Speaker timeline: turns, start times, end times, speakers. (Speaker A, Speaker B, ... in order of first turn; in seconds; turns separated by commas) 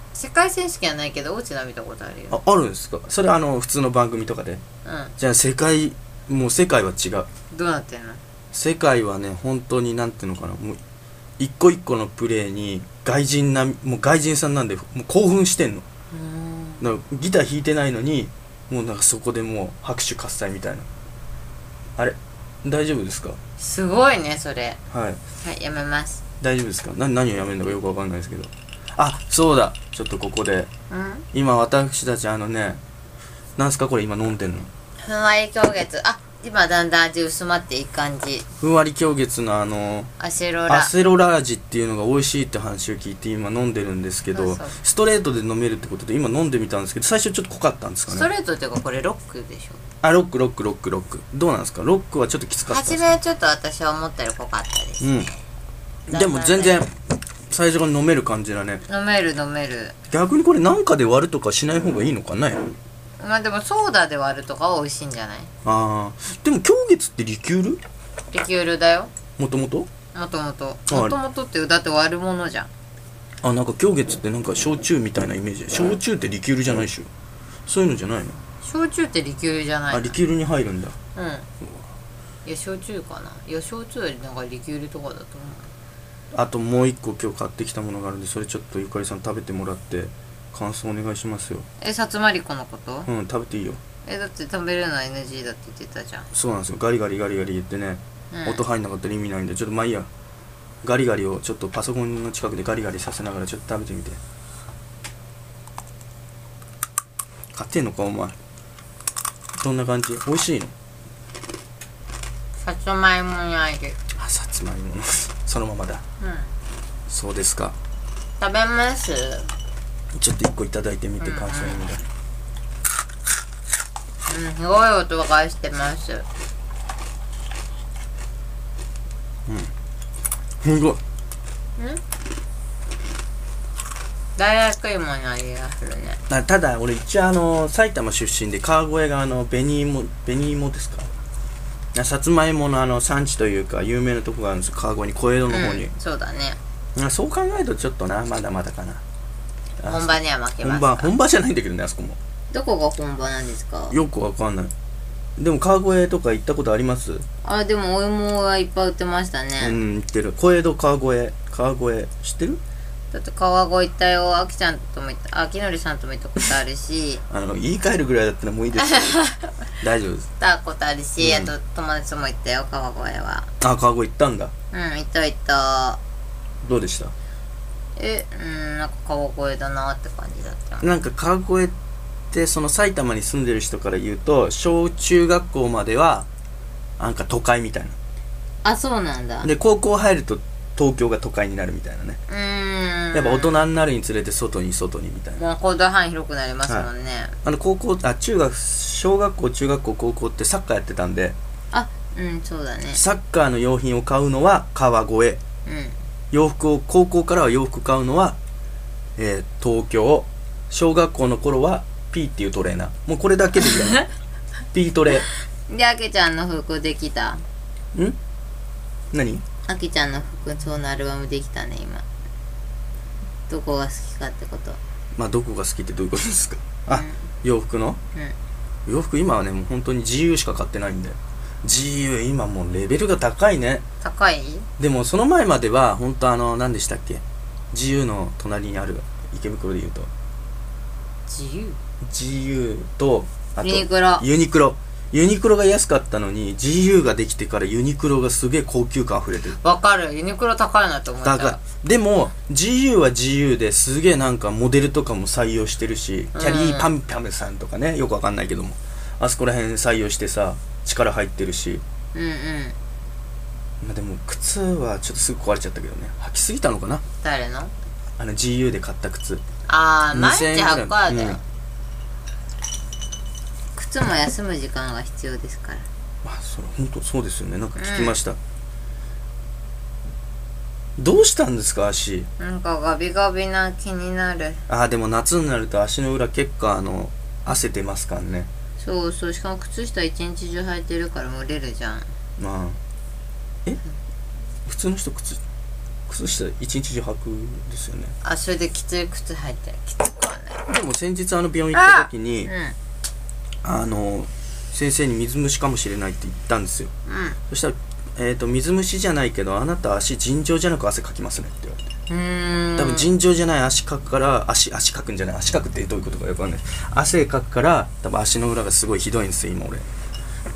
Speaker A: 0.1-2.4, Speaker B: 2.3-4.6, Speaker A: 4.8-5.1, Speaker B: 5.2-7.3, Speaker A: 7.5-8.2, Speaker B: 8.5-10.8, Speaker B: 11.4-15.9, Speaker A: 16.1-16.9, Speaker B: 16.8-20.9, Speaker B: 22.0-23.4, Speaker A: 23.6-24.8, Speaker B: 24.9-25.2, Speaker A: 25.4-26.2, Speaker B: 26.4-30.7, Speaker A: 30.9-31.3, Speaker B: 31.3-32.8, Speaker B: 33.6-34.7, Speaker A: 35.0-38.5, Speaker B: 38.6-40.1, Speaker A: 40.2-40.9, Speaker B: 40.7-48.3, Speaker A: 44.3-44.8, Speaker A: 48.1-49.8, Speaker B: 50.0-53.2, Speaker A: 52.7-55.4, Speaker B: 55.0-55.3, Speaker B: 56.1-56.9, Speaker A: 56.1-56.9, Speaker B: 57.5-58.8, Speaker A: 58.9-60.0, Speaker B: 60.1-62.7, Speaker A: 63.2-65.5, Speaker B: 65.6-67.8, Speaker A: 68.3-69.1, Speaker B: 69.4-69.9, Speaker A: 70.1-72.7, Speaker B: 70.9-71.2, Speaker B: 73.4-77.1, Speaker B: 77.7-78.4, Speaker A: 78.6-80.2, Speaker B: 79.9-81.0, Speaker A: 81.2-81.5, Speaker B: 81.6-81.9, Speaker A: 82.5-85.7, Speaker B: 86.3-91.7, Speaker A: 91.8-93.1, Speaker B: 93.1-93.8, Speaker A: 94.0-96.3, Speaker B: 96.3-100.1, Speaker A: 98.3-98.6, Speaker B: 100.8-104.2, Speaker B: 107.5-108.3, Speaker B: 109.6-110.7, Speaker A: 112.6-114.0, Speaker B: 114.2-116.0, Speaker A: 116.2-116.5, Speaker B: 117.1-117.8, Speaker A: 118.4-119.5, Speaker B: 120.1-122.0, Speaker A: 121.2-121.8, Speaker A: 124.3-126.3, Speaker B: 129.5-129.7, Speaker B: 130.6-131.0, Speaker A: 134.4-136.2, Speaker B: 136.3-141.1, Speaker B: 141.9-145.9, Speaker A: 145.5-146.6, Speaker B: 147.0-149.0, Speaker B: 149.8-152.2, Speaker A: 149.8-151.1, Speaker A: 152.5-154.0, Speaker B: 153.9-154.7, Speaker B: 155.4-157.2, Speaker A: 157.4-159.8, Speaker B: 159.6-162.6, Speaker A: 163.1-167.2, Speaker B: 167.3-169.2, Speaker A: 168.8-169.5, Speaker B: 169.8-170.3, Speaker A: 170.4-173.5, Speaker B: 171.2-171.5, Speaker B: 173.6-174.5, Speaker A: 174.7-176.0, Speaker B: 176.6-177.1, Speaker A: 178.0-180.9, Speaker B: 180.8-181.8, Speaker B: 182.3-186.3, Speaker B: 187.0-188.0, Speaker A: 188.6-189.5, Speaker B: 189.4-192.2, Speaker A: 192.3-193.6, Speaker B: 193.1-195.4, Speaker A: 195.4-197.3, Speaker B: 197.4-201.4, Speaker A: 201.7-203.0, Speaker B: 202.9-205.4, Speaker A: 205.7-206.0, Speaker B: 206.3-208.4, Speaker B: 209.2-214.0, Speaker B: 214.7-215.3, Speaker A: 215.7-217.4, Speaker B: 219.1-219.4, Speaker A: 219.7-222.1, Speaker A: 223.5-224.8, Speaker B: 225.2-228.0, Speaker A: 226.9-227.2, Speaker B: 228.9-233.9, Speaker A: 234.0-234.7, Speaker B: 234.8-240.1, Speaker A: 241.3-241.8, Speaker B: 242.0-249.6, Speaker A: 243.6-244.3, Speaker A: 249.6-251.6, Speaker B: 251.2-261.8, Speaker A: 256.3-256.9, Speaker A: 262.1-262.8, Speaker B: 263.8-267.0, Speaker A: 267.2-267.7, Speaker B: 268.2-269.4, Speaker A: 269.7-271.4, Speaker B: 270.1-271.4, Speaker A: 273.8-275.9, Speaker B: 276.2-278.4, Speaker A: 277.8-278.2, Speaker B: 281.0-282.3, Speaker A: 282.4-284.6, Speaker B: 284.7-288.5, Speaker A: 288.8-292.1, Speaker B: 292.4-292.8, Speaker B: 294.7-295.4, Speaker B: 296.1-298.1, Speaker A: 298.2-300.6, Speaker B: 300.7-302.5, Speaker A: 301.7-302.8, Speaker B: 303.6-306.9, Speaker A: 307.1-307.4, Speaker B: 307.5-311.8, Speaker A: 312.1-313.1, Speaker B: 312.8-319.9